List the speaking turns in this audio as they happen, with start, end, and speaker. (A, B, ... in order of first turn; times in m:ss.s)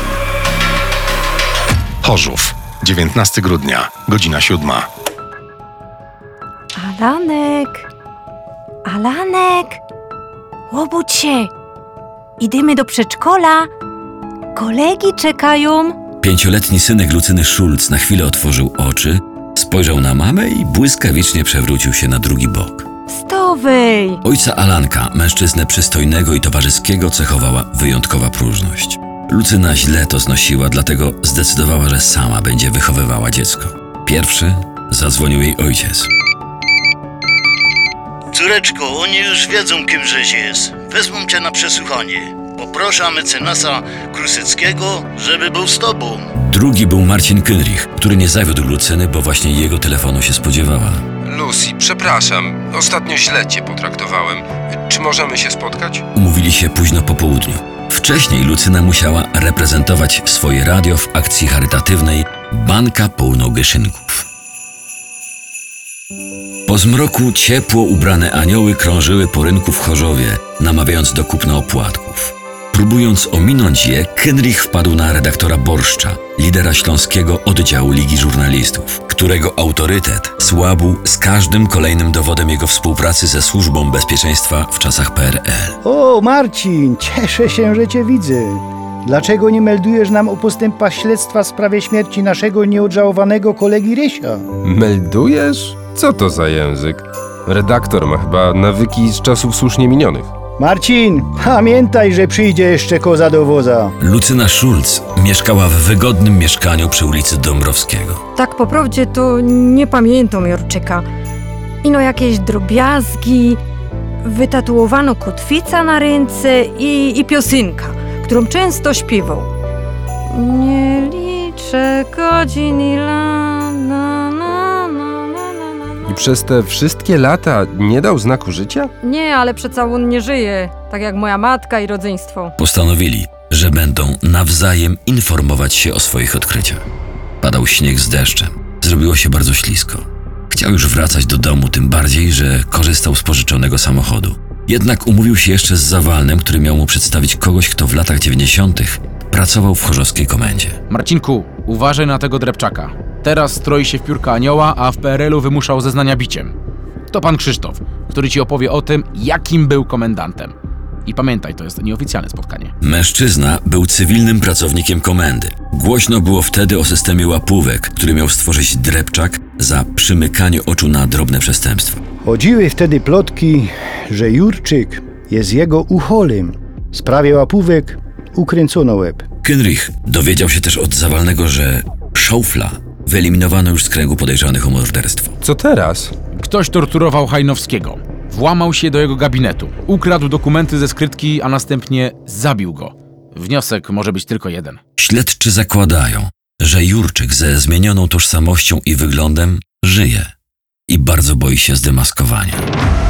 0:02.0-0:04.9 A
0:06.8-0:07.9 B
0:08.8-0:09.8 B
0:10.7-0:11.5 B
0:12.4-0:13.7 B
0:14.5-0:16.0 B
0:16.2-0:22.8 C
0:23.1-0:24.2 B
0:24.2-0:36.1 C
0:38.3-0:46.3 D
0:46.4-0:51.0 C
0:51.2-0:56.0 E
0:56.1-1:04.2 C
1:06.7-1:25.8 C
1:25.8-1:34.4 F
1:34.6-1:40.3 E
1:40.6-1:44.0 F
1:44.0-1:48.2 C
1:48.3-1:51.0 B
1:51.8-1:53.6 B
1:54.2-1:59.5 B
2:00.3-2:06.1 B
2:06.1-2:08.9 E
2:09.0-2:12.5 B
2:12.6-2:16.8 C
2:17.4-2:30.8 C
2:30.9-2:36.5 G
2:37.1-2:40.5 G
2:41.0-2:42.7 G
2:42.8-2:52.0 C
2:52.2-2:59.2 F
2:59.4-3:05.3 C
3:05.4-3:06.1 E
3:06.3-3:14.8 G
3:15.0-3:20.3 C
3:20.9-3:22.6 C